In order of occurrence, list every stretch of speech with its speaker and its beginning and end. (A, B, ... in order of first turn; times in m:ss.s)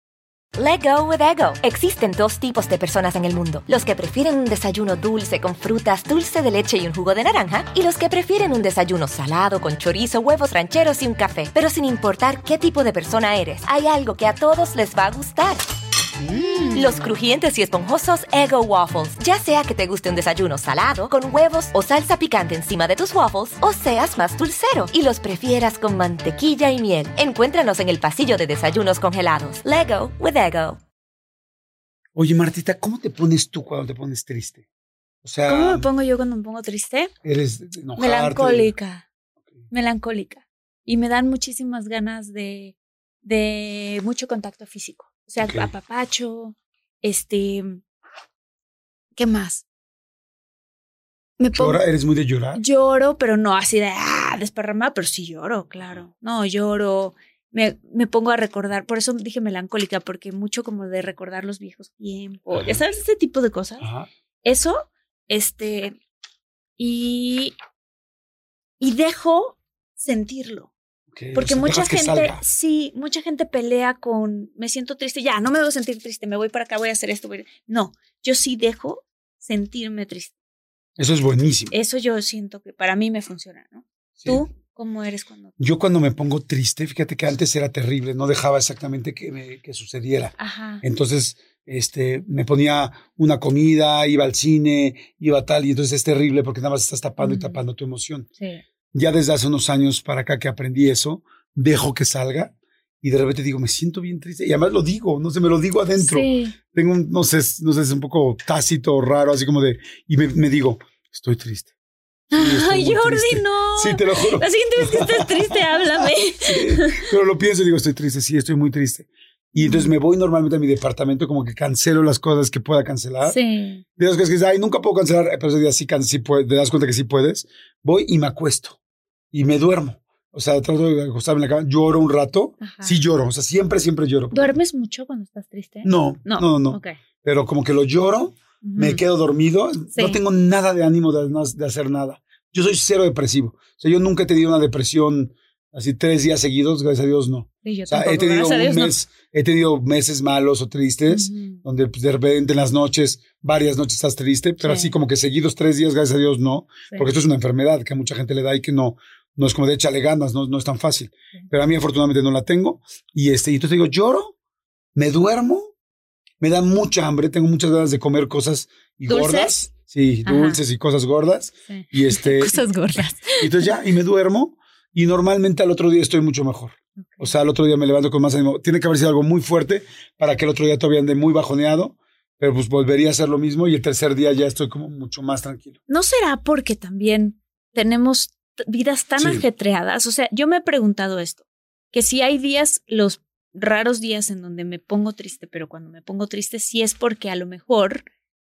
0:00.6-0:15.6 A
0:16.7-0:30.8 A
0:32.2-0:34.6 B
0:35.2-0:35.9 B
0:35.5-0:37.1 C
0:37.2-0:38.7 B
0:38.0-0:39.1 C
0:39.7-0:47.8 C
0:45.4-0:45.7 B
0:49.2-0:49.6 C
0:51.4-0:51.8 C
0:51.6-0:52.6 B
0:52.5-1:03.9 C
1:02.5-1:02.8 B
1:03.8-1:04.1 B
1:04.4-1:06.0 C
1:06.8-1:07.6 C
1:08.8-1:10.7 C
1:11.1-1:12.4 B
1:11.3-1:20.3 C
1:21.0-1:21.7 B
1:21.7-1:25.5 C
1:24.2-1:24.4 B
1:25.6-1:38.3 B
1:30.4-1:30.8 C
1:37.2-1:37.6 C
1:38.9-1:51.7 B
1:46.0-1:46.5 C
1:52.3-1:57.1 C
1:52.3-2:03.4 B
1:59.6-1:59.9 C
2:03.2-2:03.8 C
2:04.0-2:08.8 B
2:09.3-2:14.6 B
2:12.6-2:13.0 C
2:14.3-2:17.0 C
2:15.8-2:44.3 B
2:18.6-2:19.0 C
2:27.6-2:29.0 C
2:31.1-2:31.6 C
2:34.6-2:34.9 C
2:45.0-2:45.7 B
2:46.4-2:52.6 B
2:49.1-2:49.6 C
2:50.3-2:50.6 C
2:51.7-2:53.7 C
2:53.3-3:05.8 B
2:57.0-2:57.3 C
3:05.9-3:18.0 C
3:09.2-3:09.4 B